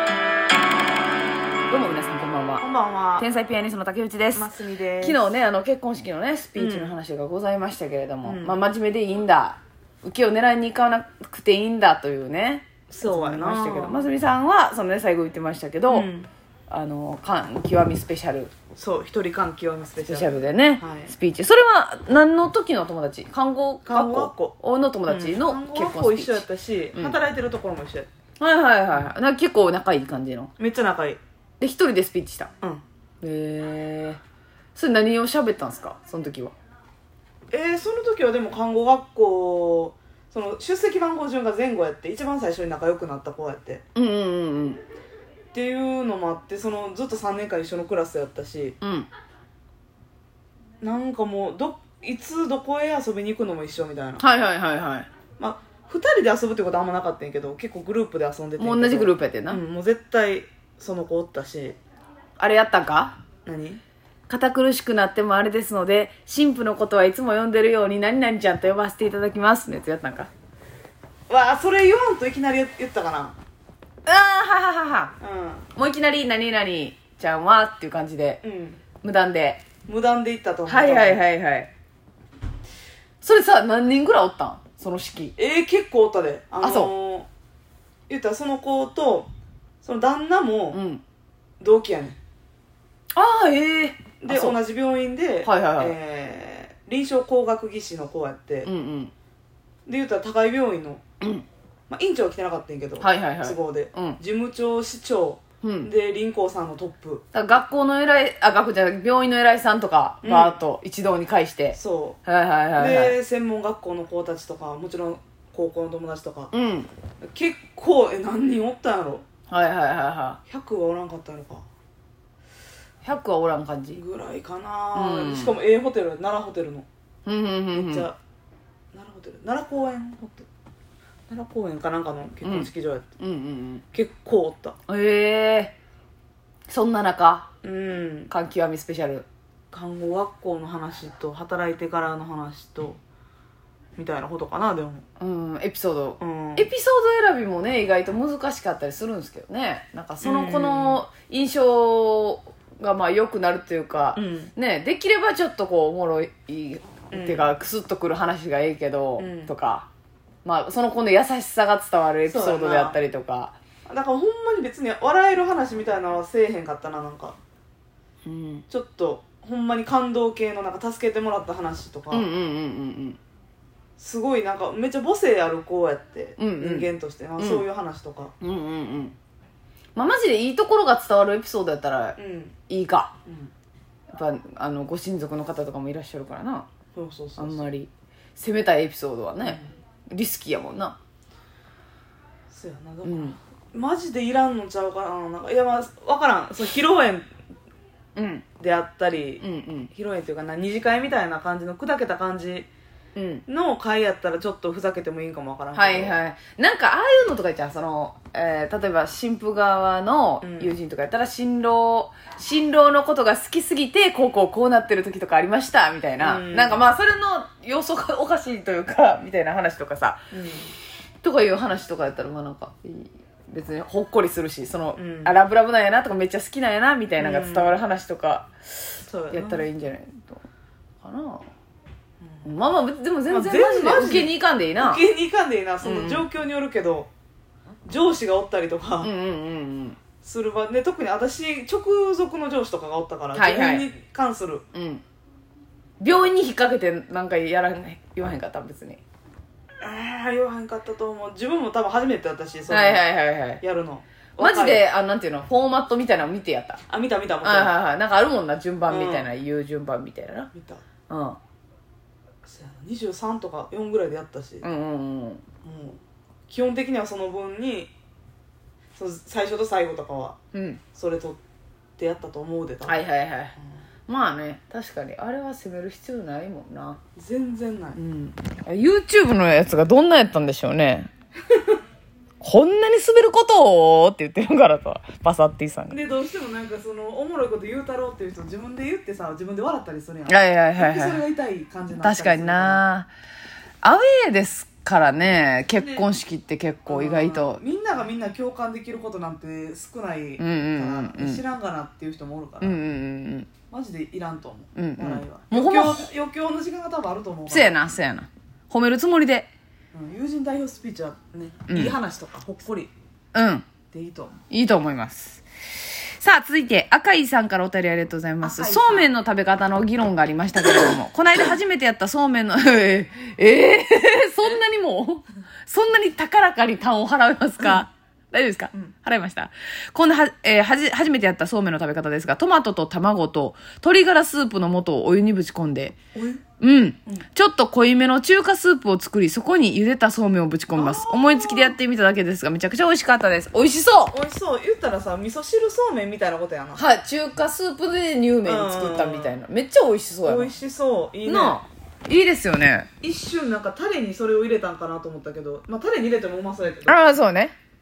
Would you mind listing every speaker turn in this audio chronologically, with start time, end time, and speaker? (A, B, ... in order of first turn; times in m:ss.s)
0:01.7-0:02.6 A
0:02.6-0:03.3 B
0:03.2-0:16.1 A
0:04.3-0:05.3 B
0:06.6-0:07.0 B
0:08.2-0:08.6 B
0:12.9-0:14.1 B
0:15.9-0:16.3 B
0:16.7-0:18.5 A
0:18.8-0:21.1 B
0:20.1-0:27.2 A
0:23.8-0:28.1 B
0:28.4-0:30.5 A
0:30.6-0:31.2 B
0:31.6-0:32.5 A
0:33.2-0:34.2 A
0:34.7-0:36.5 A
0:37.5-0:43.8 B
0:43.9-0:44.8 A
0:45.5-0:48.8 B
0:48.8-0:49.1 A
0:50.8-0:54.2 B
0:54.2-0:55.1 A
0:55.4-1:01.8 B
0:58.6-0:59.6 A
1:02.4-1:03.2 A
1:03.4-1:03.8 B
1:04.3-1:10.3 A
1:11.3-1:13.4 B
1:14.0-1:15.1 A
1:15.2-1:15.7 B
1:15.7-1:18.4 A
1:18.4-1:18.8 B
1:19.0-1:19.6 A
1:19.8-1:21.2 B
1:20.7-1:21.7 A
1:23.2-1:25.3 A
1:25.4-1:27.3 B
1:26.6-1:26.9 A
1:28.1-1:29.3 B
1:29.8-1:30.8 B
1:30.7-1:31.0 A
1:31.6-1:32.2 B
1:33.1-1:34.6 A
1:34.2-1:38.7 B
1:35.4-1:35.9 A
1:38.6-1:39.1 A
1:39.8-1:41.0 B
1:41.9-1:47.2 B
1:43.0-1:44.2 A
1:45.6-1:45.9 A
1:47.3-1:53.2 A
1:50.2-1:50.6 B
1:51.7-1:52.2 B
1:52.8-1:56.5 B
1:56.5-1:56.9 A
1:57.2-1:59.2 B
1:59.5-2:00.4 A
2:00.5-2:01.6 B
2:03.0-2:04.0 A
2:03.9-2:06.9 B
2:04.9-2:05.5 A
2:07.2-2:08.1 A
2:07.7-2:08.2 B
2:08.9-2:10.5 B
2:11.3-2:13.0 B
2:12.4-2:13.8 A
2:13.9-2:14.8 B
2:14.9-2:15.7 A
2:16.7-2:17.5 A
2:17.6-2:18.3 B
2:18.3-2:19.2 A
2:19.7-2:23.0 B
2:24.0-2:25.0 B
2:25.2-2:39.9 A
2:26.2-2:26.7 B
2:30.2-2:31.0 B
2:34.2-2:34.5 B
2:37.1-2:37.5 B
2:39.2-2:39.5 B
2:40.4-2:43.6 A
2:42.2-2:43.0 B
2:43.8-2:47.4 B
2:48.2-2:48.6 A
2:48.7-2:52.3 B
2:52.1-2:53.2 A
2:54.0-2:58.3 B
2:56.4-2:56.9 A
2:57.4-2:57.6 A
2:58.4-2:59.2 A
2:59.9-3:02.2 A
3:02.2-3:02.6 B
3:02.7-3:03.1 A
3:03.2-3:03.5 B
3:04.1-3:06.7 A
3:06.9-3:07.7 B
3:07.4-3:09.6 A
3:09.4-3:09.7 B
3:10.1-3:11.0 A
3:12.5-3:17.3 B
3:13.0-3:13.4 A
3:18.2-3:18.4 A
3:18.6-3:22.7 B
3:19.4-3:19.9 A
3:23.2-3:23.4 A
3:23.5-3:26.2 B
3:25.7-3:40.3 A
3:30.4-3:30.7 B
3:36.2-3:36.9 B
3:40.3-3:40.7 B
3:41.2-3:50.4 A
3:45.0-3:45.4 B
3:47.2-3:47.8 B
3:49.0-3:49.6 B
3:51.0-3:51.5 A
3:52.2-3:52.5 B
3:52.4-3:55.0 A
3:53.3-3:57.1 B
3:55.8-3:56.2 A
3:57.8-3:59.1 B
3:59.0-4:00.0 A
4:00.2-4:04.6 B
4:03.3-4:03.9 A
4:04.7-4:05.0 A
4:06.0-4:09.0 A
4:09.8-4:13.1 B
4:12.7-4:13.6 A
4:13.6-4:14.8 B
4:14.4-4:16.8 A
4:16.9-4:17.7 B
4:17.4-4:20.5 A
4:18.9-4:19.3 B
4:20.5-4:20.8 B
4:21.1-4:21.4 A
4:22.4-4:24.6 B
4:24.6-4:25.4 A
4:25.6-4:27.9 B
4:29.0-4:30.4 B
4:30.5-4:30.8 A
4:30.9-4:31.4 B
4:32.0-4:33.0 B
4:32.8-4:33.5 A
4:34.1-4:37.0 A
4:37.2-4:38.0 B
4:38.0-4:41.1 A
4:42.4-4:46.0 A
4:45.9-4:52.9 B
4:50.3-4:51.2 A
4:52.0-4:53.1 A
4:53.8-4:57.6 A
4:55.7-4:56.1 B
4:56.9-5:02.8 B
5:00.4-5:01.4 A
5:02.6-5:03.5 A
5:03.7-5:07.7 B
5:04.8-5:06.1 A
5:07.5-5:09.5 A
5:09.9-5:12.9 B
5:11.7-5:11.9 A
5:13.3-5:13.7 A
5:13.9-5:14.4 B
5:14.5-5:36.0 A
5:18.4-5:19.1 B
5:36.1-5:36.4 B
5:36.6-5:44.1 A
5:40.7-5:41.8 B
5:44.0-5:46.8 B
5:46.8-5:50.5 A
5:48.4-5:49.4 B
5:50.2-5:51.6 B
5:51.2-5:52.9 A
5:53.0-5:57.0 B
5:56.8-5:57.5 A